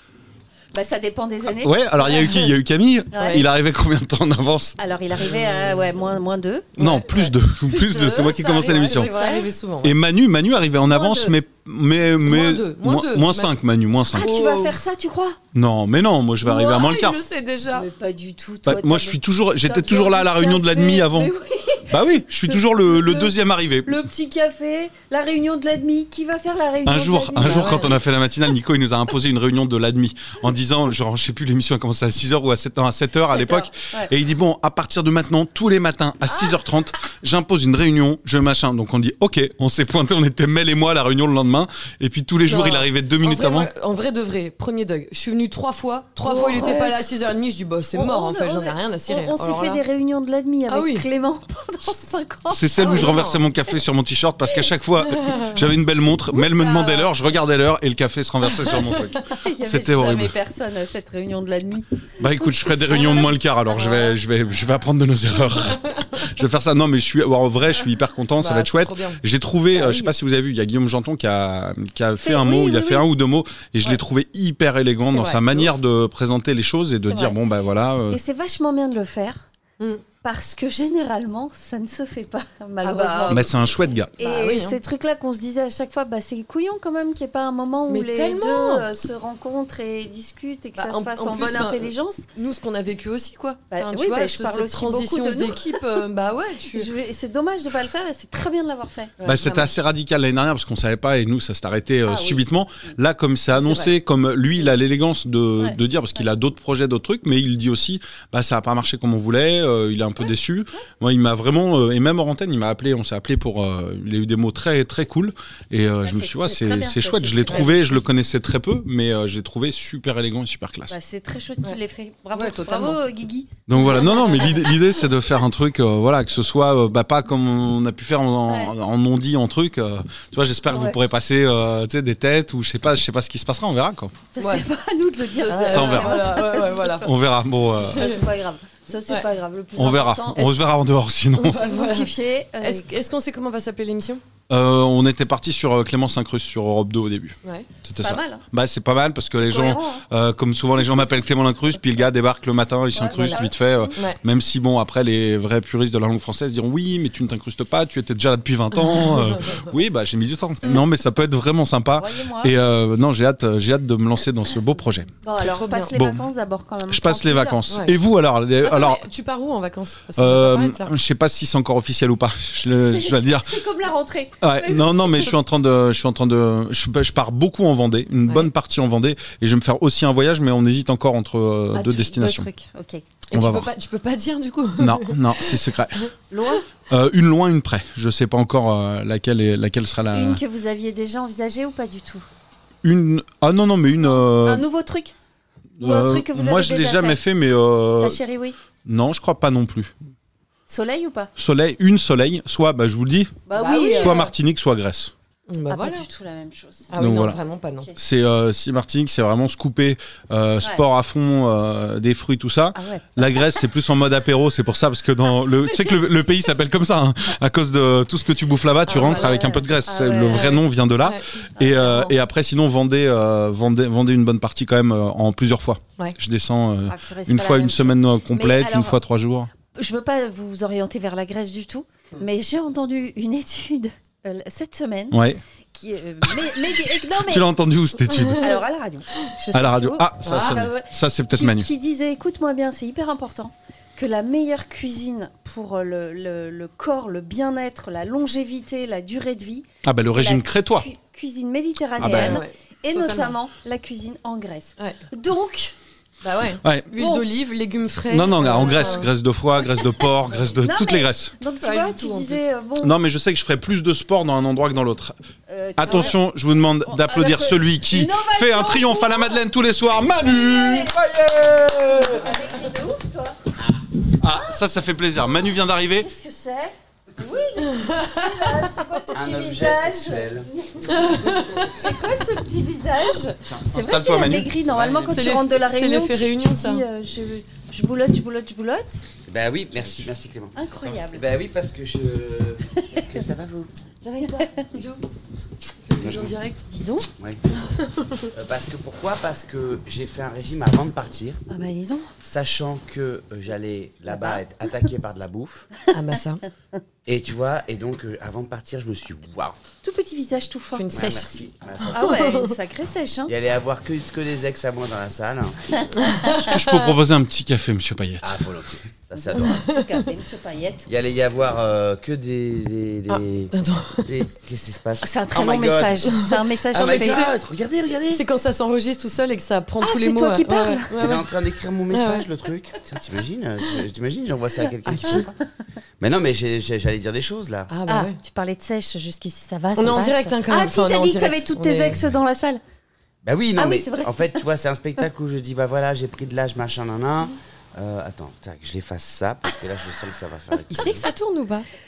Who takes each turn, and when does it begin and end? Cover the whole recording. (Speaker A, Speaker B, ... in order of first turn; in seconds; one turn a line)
Speaker A: 0.7-1.8
Speaker B: 1.6-4.8
Speaker A: 3.1-3.4
Speaker A: 4.8-9.5
Speaker C: 5.2-5.9
Speaker C: 6.8-7.3
Speaker B: 6.8-9.1
Speaker C: 7.9-9.9
Speaker B: 9.8-14.3
Speaker A: 10.8-11.3
Speaker C: 12.2-13.5
Speaker C: 14.1-14.8
Speaker A: 14.2-15.4
Speaker B: 15.5-17.2
Speaker C: 16.4-17.9
Speaker A: 17.7-28.0
Speaker B: 18.6-21.3
Speaker B: 21.9-24.1
Speaker B: 26.9-43.7
Speaker A: 33.3-34.1
Speaker C: 42.5-49.8
Speaker A: 46.2-47.1
Speaker A: 48.0-53.2
Speaker C: 50.7-51.1
Speaker B: 52.5-60.3
Speaker C: 52.8-53.5
Speaker C: 55.0-55.6
Speaker A: 56.3-57.1
Speaker C: 58.6-59.2
Speaker A: 59.4-61.9
Speaker B: 62.2-78.2
Speaker A: 62.9-64.1
Speaker C: 68.4-69.2
Speaker A: 72.2-73.1
Speaker A: 75.0-75.7
Speaker A: 77.0-77.4
Speaker A: 78.1-79.5
Speaker A: 80.2-83.5
Speaker C: 82.8-83.5
Speaker B: 83.3-84.2
Speaker A: 84.2-92.3
Speaker C: 84.2-84.8
Speaker C: 87.9-88.9
Speaker C: 90.8-96.9
Speaker A: 93.7-95.8
Speaker A: 96.7-99.7
Speaker B: 99.2-120.9
Speaker A: 102.0-102.4
Speaker A: 103.5-103.9
Speaker A: 116.0-118.0
Speaker A: 120.9-124.7
Speaker C: 122.4-123.0
Speaker B: 123.7-134.2
Speaker C: 123.9-124.4
Speaker A: 130.7-131.0
Speaker A: 134.3-137.1
Speaker C: 134.4-134.7
Speaker C: 135.4-137.1
Speaker B: 135.7-136.3
Speaker B: 137.0-138.1
Speaker A: 137.8-140.7
Speaker C: 137.9-138.2
Speaker B: 139.8-141.7
Speaker A: 141.4-142.9
Speaker C: 141.5-144.2
Speaker B: 144.5-165.1
Speaker C: 147.4-147.7
Speaker A: 147.9-148.4
Speaker A: 149.3-150.0
Speaker A: 152.9-153.9
Speaker C: 153.1-153.4
Speaker C: 159.1-159.5
Speaker A: 162.0-162.6
Speaker A: 165.2-167.6
Speaker C: 165.4-165.9
Speaker B: 165.9-166.2
Speaker B: 166.9-169.0
Speaker C: 167.7-167.9
Speaker C: 168.6-170.9
Speaker B: 170.2-173.5
Speaker A: 172.8-175.3
Speaker B: 174.4-182.5
Speaker A: 181.7-183.1
Speaker C: 183.3-186.1
Speaker B: 183.3-183.7
Speaker B: 184.8-186.0
Speaker A: 186.3-186.7
Speaker B: 186.9-190.4
Speaker A: 190.1-192.2
Speaker B: 192.8-194.7
Speaker A: 194.1-195.1
Speaker B: 195.8-198.2
Speaker A: 195.8-197.2
Speaker A: 198.0-198.6
Speaker B: 198.8-199.9
Speaker A: 200.7-201.3
Speaker B: 201.4-205.1
Speaker A: 203.5-204.3
Speaker C: 203.6-204.2
Speaker C: 205.5-206.1
Speaker A: 205.7-206.9
Speaker C: 206.9-207.9
Speaker B: 207.0-207.4
Speaker B: 208.0-229.5
Speaker A: 212.8-213.2
Speaker A: 218.9-220.6
Speaker C: 218.9-219.6
Speaker C: 220.3-221.2
Speaker A: 221.6-222.1
Speaker A: 226.9-229.0
Speaker A: 229.7-235.2
Speaker B: 235.1-235.4
Speaker A: 235.7-237.5
Speaker B: 236.3-238.5
Speaker C: 238.1-238.5
Speaker A: 238.3-255.8
Speaker B: 239.5-241.7
Speaker C: 240.2-240.6
Speaker B: 249.8-250.9
Speaker B: 252.0-252.4
Speaker C: 252.0-253.3
Speaker C: 256.2-259.1
Speaker A: 256.9-257.2
Speaker B: 258.1-261.3
Speaker A: 258.5-259.1
Speaker A: 260.6-263.0
Speaker C: 261.6-262.4
Speaker B: 262.8-265.2
Speaker A: 265.5-266.2
Speaker B: 265.8-272.4
Speaker A: 266.9-269.4
Speaker A: 270.1-271.0
Speaker A: 271.9-273.4
Speaker B: 274.1-276.1
Speaker A: 274.3-274.6
Speaker A: 275.9-289.0
Speaker C: 277.8-278.1
Speaker D: 279.1-280.5
Speaker C: 280.9-281.7
Speaker B: 283.5-285.4
Speaker C: 285.1-286.8
Speaker D: 289.3-293.7
Speaker B: 289.8-290.1
Speaker A: 290.6-291.2
Speaker C: 294.0-295.0
Speaker A: 294.2-294.8
Speaker C: 295.9-297.1
Speaker D: 296.0-296.3
Speaker D: 297.2-297.4
Speaker C: 297.6-298.3
Speaker D: 298.3-301.4
Speaker A: 301.5-302.1
Speaker D: 302.2-305.7
Speaker A: 304.1-304.4
Speaker C: 305.9-306.4
Speaker D: 307.1-309.6
Speaker A: 309.8-311.3
Speaker C: 310.7-311.2
Speaker D: 310.9-312.2
Speaker A: 311.9-313.3
Speaker C: 311.9-312.5
Speaker D: 313.3-315.7
Speaker C: 315.9-317.0
Speaker B: 316.4-318.4
Speaker D: 318.2-319.6
Speaker A: 319.3-320.9
Speaker C: 319.4-320.0
Speaker D: 320.9-323.5
Speaker C: 323.1-324.2
Speaker D: 324.1-328.2
Speaker A: 325.0-327.2
Speaker C: 326.2-327.4
Speaker C: 328.1-331.3
Speaker A: 329.8-330.9
Speaker D: 331.0-335.4
Speaker C: 331.9-332.3
Speaker C: 334.9-335.2
Speaker D: 336.0-337.7
Speaker C: 337.7-338.2
Speaker A: 337.9-342.6
Speaker C: 339.8-342.0
Speaker D: 343.2-351.1
Speaker A: 343.6-344.4
Speaker C: 350.7-351.7